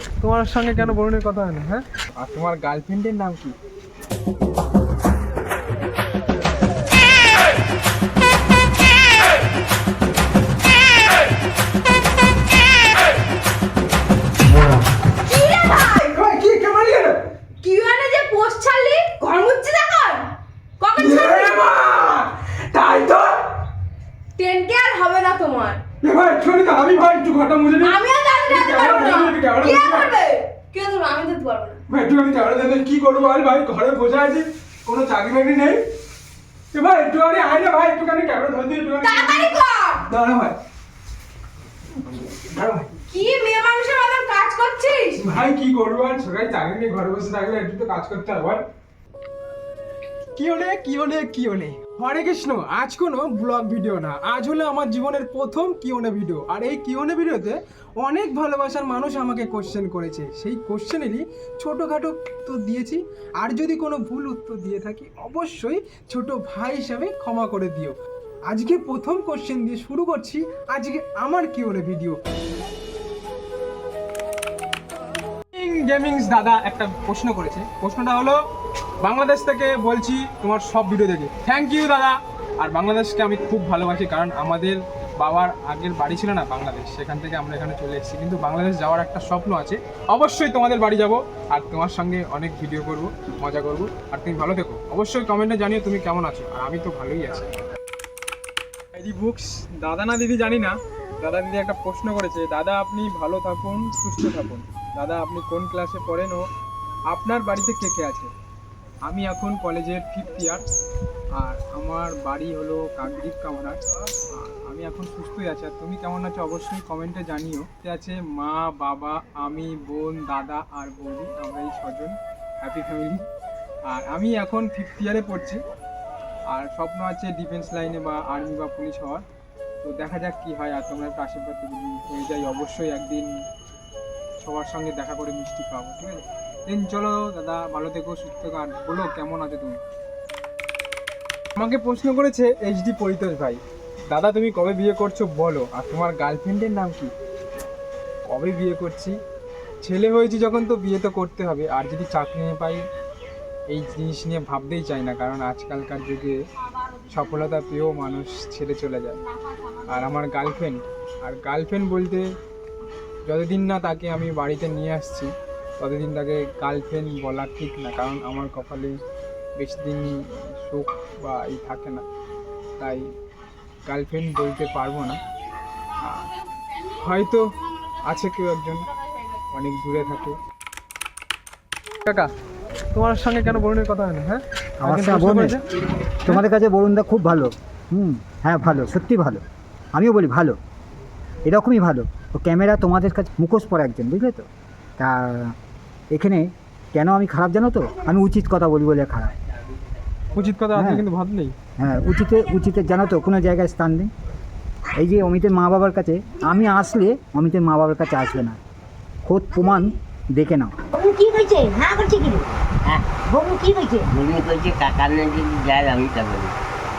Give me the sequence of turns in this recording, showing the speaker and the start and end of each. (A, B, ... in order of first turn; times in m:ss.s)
0:00.2-0:03.6 A
0:15.3-0:16.1 B
0:16.0-0:17.2 A
0:17.6-0:21.6 B
0:21.0-0:23.5 A
0:24.4-0:25.8 B
0:26.0-0:30.1 A
0:27.8-0:31.8 B
0:31.9-0:35.8 A
0:36.7-0:40.6 A
0:39.0-0:40.0 B
0:42.3-0:43.0 A
0:43.1-0:45.2 B
0:45.2-0:48.6 A
0:50.4-1:12.2 A
1:15.5-1:18.4 A
1:19.0-1:37.5 A
1:38.9-1:46.4 A
1:47.1-1:48.3 A
1:49.1-1:50.6 A
1:51.4-2:03.2 A
2:03.9-2:05.6 A
2:06.5-2:09.2 A
2:09.8-2:13.3 A
2:14.4-2:19.8 A
2:21.6-2:27.1 A
2:28.3-2:29.2 A
2:29.8-2:32.8 A
2:33.7-2:36.4 A
2:37.1-2:39.2 A
2:39.9-2:42.3 A
2:43.2-2:49.0 A
2:49.6-2:52.0 A
2:52.8-2:53.1 A
2:53.9-2:55.2 A
2:56.0-2:56.3 A
2:57.0-2:57.5 A
2:58.0-2:58.9 A
2:59.5-3:00.4 A
3:02.0-3:02.3 A
3:02.9-3:05.7 A
3:04.8-3:05.6 C
3:06.2-3:09.4 C
3:10.0-3:10.6 C
3:11.4-3:15.6 C
3:16.1-3:19.4 C
3:20.3-3:21.6 A
3:20.7-3:21.0 C
3:21.8-3:24.1 C
3:24.9-3:28.6 C
3:29.2-3:30.8 C
3:30.9-3:32.6 D
3:32.8-3:33.2 E
3:33.2-3:34.1 D
3:34.0-3:36.6 E